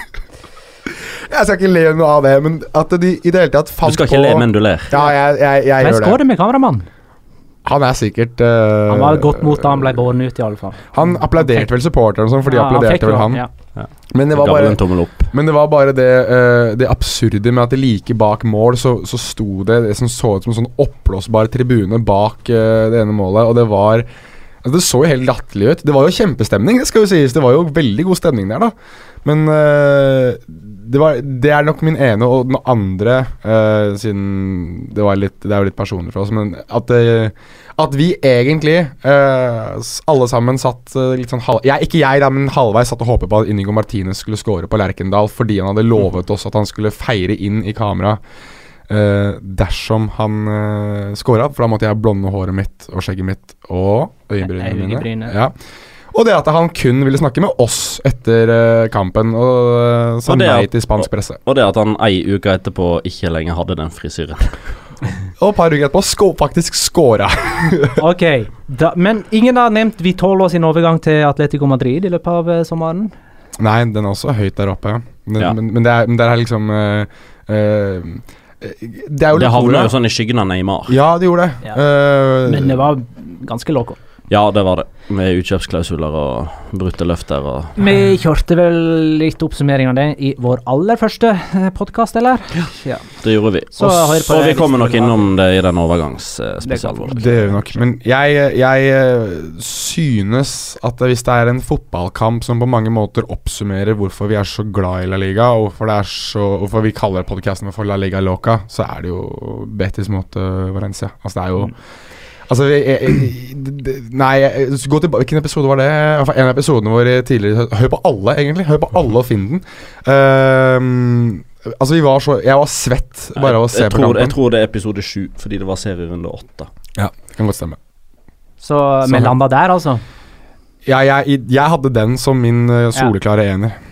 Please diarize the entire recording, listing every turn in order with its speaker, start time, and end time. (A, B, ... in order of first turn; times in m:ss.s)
0:01.2-0:06.2 A
0:03.8-0:04.9 B
0:05.8-0:06.9 C
0:07.6-0:10.1 A
0:08.9-0:11.7 C
0:10.9-0:13.4 A
0:12.4-0:13.5 C
0:13.8-0:15.3 B
0:14.1-0:24.1 A
0:24.6-0:48.2 A
0:48.9-0:55.5 A
0:54.4-0:55.4 C
0:56.1-1:01.4 A
1:00.3-1:04.5 B
1:05.4-1:08.0 A
1:08.0-1:13.1 C
1:13.6-1:19.9 A
1:19.3-1:21.0 B
1:20.9-1:22.8 A
1:22.4-1:24.0 C
1:24.3-1:27.9 B
1:27.8-1:33.0 C
1:32.6-1:37.3 B
1:33.7-1:35.3 C
1:36.6-1:37.8 C
1:37.1-1:51.7 A
1:52.4-2:04.3 A
2:03.4-2:06.7 B
2:07.0-2:07.8 A
2:08.6-2:10.0 C
2:09.0-2:09.3 A
2:10.8-2:13.8 A